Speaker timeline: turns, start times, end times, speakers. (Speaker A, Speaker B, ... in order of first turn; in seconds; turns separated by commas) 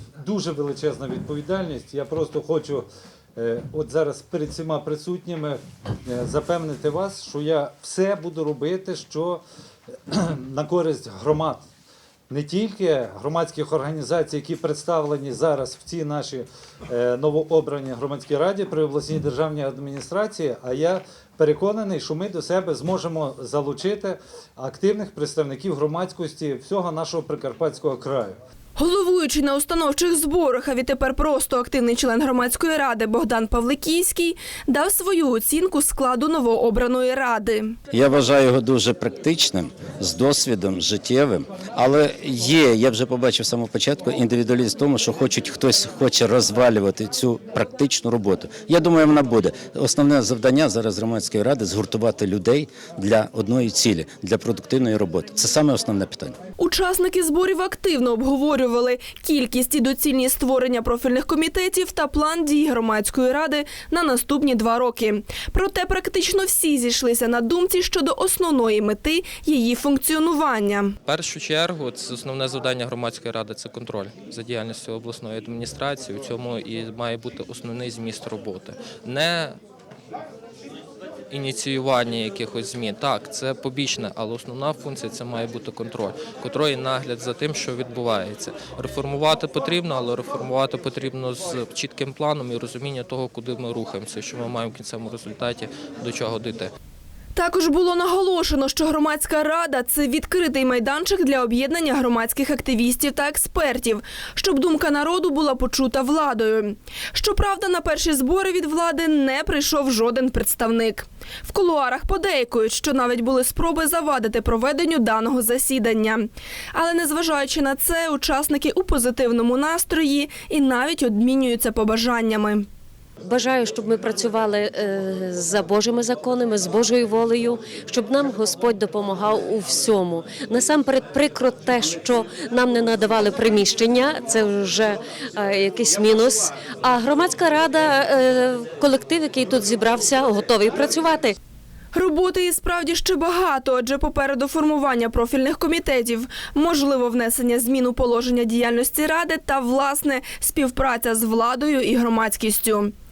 Speaker A: 0.2-9.4, Speaker A: 10.1-11.6, Speaker A: 12.3-28.4, Speaker B: 28.8-37.8, Speaker C: 37.9-56.4, Speaker B: 56.6-71.0, Speaker D: 71.0-79.6, Speaker D: 81.3-96.7, Speaker B: 97.3-122.6, Speaker E: 123.2-141.3, Speaker B: 141.9-152.9